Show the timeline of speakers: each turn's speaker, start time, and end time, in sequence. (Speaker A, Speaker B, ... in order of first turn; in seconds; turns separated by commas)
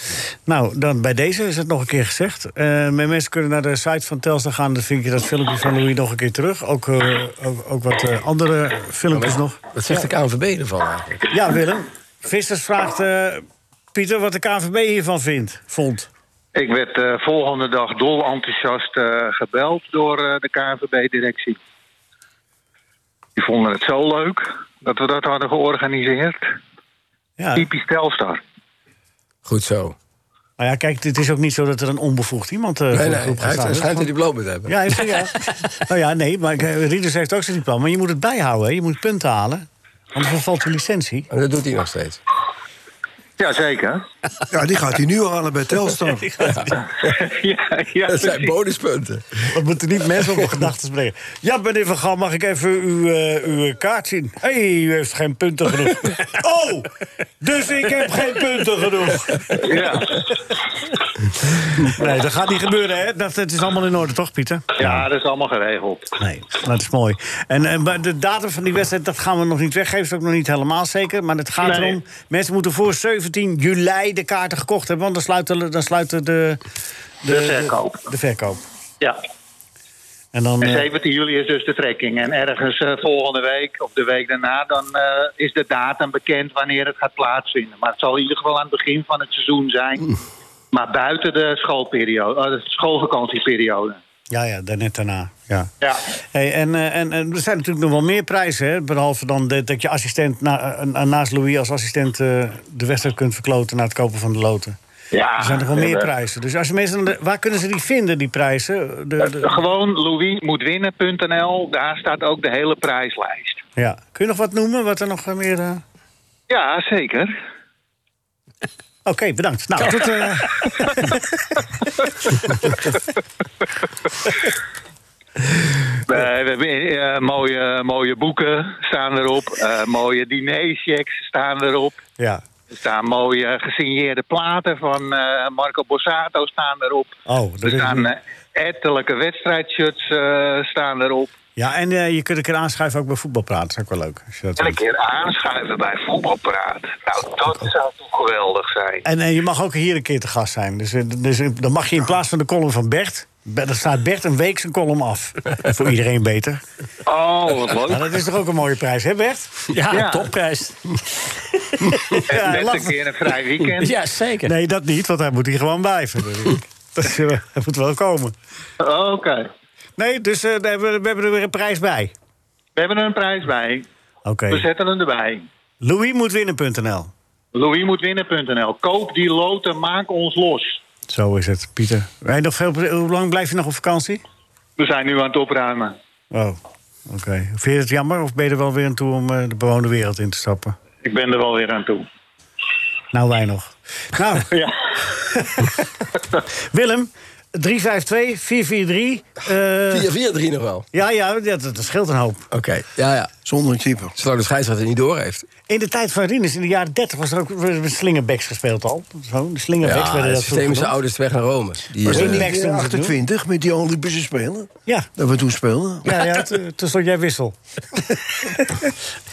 Speaker A: 0.5-10.1, Speaker B: 9.1-11.3, Speaker A: 11.3-16.1, Speaker C: 16.6-21.6, Speaker C: 23.4-26.5, Speaker A: 27.4-27.7, Speaker C: 27.6-28.4, Speaker B: 29.5-30.0, Speaker A: 30.6-34.1, Speaker B: 32.9-35.1, Speaker A: 34.7-41.3, Speaker B: 41.3-42.2, Speaker C: 43.4-44.1, Speaker D: 44.5-46.3, Speaker B: 46.4-47.2, Speaker C: 46.8-48.5, Speaker B: 48.1-49.5, Speaker A: 49.5-56.9, Speaker A: 57.4-60.1, Speaker C: 59.5-60.2, Speaker A: 61.6-65.1, Speaker C: 64.8-66.2, Speaker A: 66.2-76.6, Speaker C: 71.6-72.0, Speaker A: 77.2-78.6, Speaker C: 77.3-78.1, Speaker A: 80.3-80.9, Speaker C: 80.6-90.2, Speaker C: 90.7-94.0, Speaker A: 94.3-95.7, Speaker A: 96.3-104.8, Speaker C: 105.1-106.1, Speaker A: 105.4-109.5, Speaker C: 109.2-113.6, Speaker A: 113.8-115.8, Speaker C: 116.5-117.3, Speaker A: 119.0-121.4, Speaker C: 122.2-123.0, Speaker C: 126.1-132.0, Speaker A: 132.2-132.4, Speaker C: 132.7-141.3, Speaker A: 137.3-138.1, Speaker A: 141.6-144.8, Speaker C: 144.6-149.1, Speaker A: 149.1-156.6, Speaker C: 157.1-158.2, Speaker A: 157.9-159.5, Speaker E: 159.7-161.0, Speaker C: 159.9-160.3, Speaker A: 161.8-163.0, Speaker C: 162.1-163.9, Speaker E: 163.8-164.5, Speaker A: 164.4-168.3, Speaker C: 168.8-169.5, Speaker A: 170.0-172.1, Speaker C: 172.8-173.9, Speaker A: 174.2-174.7, Speaker C: 174.5-175.5, Speaker A: 175.8-177.1, Speaker C: 177.6-180.8, Speaker A: 181.1-184.2, Speaker C: 184.8-186.0, Speaker A: 186.3-190.8, Speaker C: 191.0-192.1, Speaker A: 193.1-194.6, Speaker C: 194.5-195.6, Speaker A: 195.2-195.8, Speaker A: 196.7-200.1, Speaker B: 199.9-200.9, Speaker A: 200.9-202.5, Speaker B: 202.5-203.3, Speaker D: 203.5-204.2, Speaker B: 204.2-205.5, Speaker A: 205.7-210.9, Speaker B: 209.8-212.5, Speaker D: 212.0-216.2, Speaker A: 212.1-213.2, Speaker A: 216.1-217.6, Speaker A: 218.1-218.9